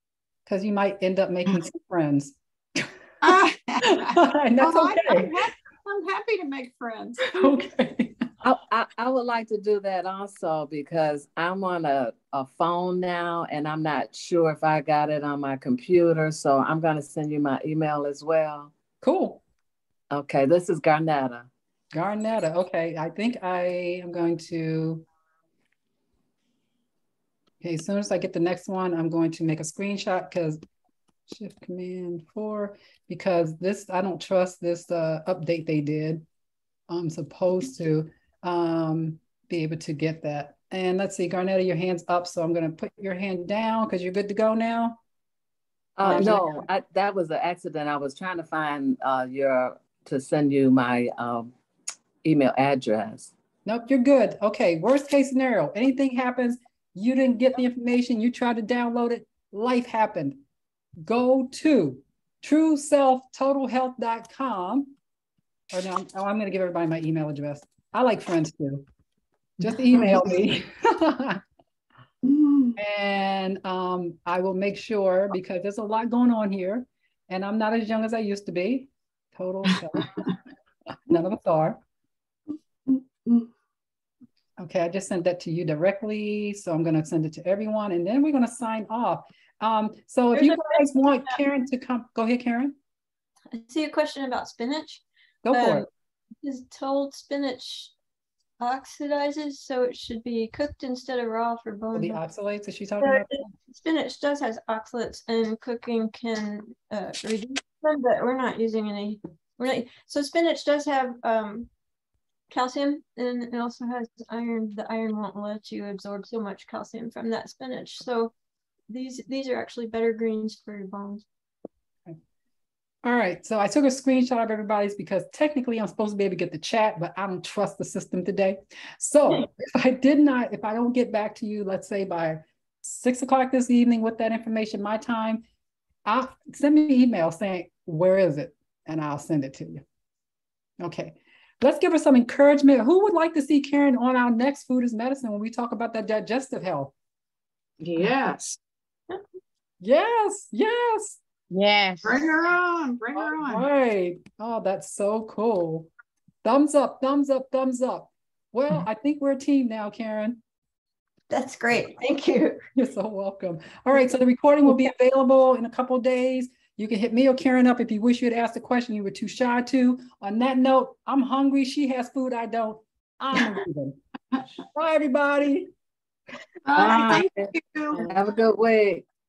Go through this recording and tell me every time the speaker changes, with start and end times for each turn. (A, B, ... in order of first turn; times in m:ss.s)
0:00.5-0:02.9 A
0:03.2-0:07.5 B
0:03.8-0:05.4 A
0:07.3-0:08.2 A
0:08.4-0:18.7 C
0:19.0-0:19.4 A
0:20.1-0:21.5 C
0:21.9-0:25.0 A
0:27.6-0:30.6 A
0:31.3-0:36.3 A
0:36.9-0:45.0 A
0:46.0-0:51.5 C
0:46.0-0:46.5 A
0:52.2-0:53.3 C
0:53.7-1:00.4 A
1:01.0-1:04.9 A
1:05.7-1:08.8 A
1:09.6-1:11.4 A
1:12.3-1:12.7 B
1:12.8-1:20.3 A
1:21.1-1:21.8 A
1:24.6-1:32.8 A
1:30.3-1:31.4 D
1:33.5-1:35.9 D
1:35.4-1:35.9 A
1:36.4-1:37.9 D
1:38.6-1:42.2 D
1:42.0-1:43.5 A
1:43.0-1:51.7 D
1:52.5-1:58.3 D
1:58.9-2:01.2 D
2:03.0-2:15.4 A
2:16.1-2:19.8 A
2:20.8-2:26.9 A
2:27.8-2:28.1 C
2:27.9-2:28.6 B
2:29.8-2:31.2 A
2:31.5-2:32.1 C
2:32.0-2:33.7 B
2:33.2-2:35.9 A
2:36.4-2:40.4 A
2:41.3-2:42.6 D
2:42.8-2:54.0 A
2:54.7-2:55.7 A
2:56.7-2:58.1 B
2:56.8-2:59.1 C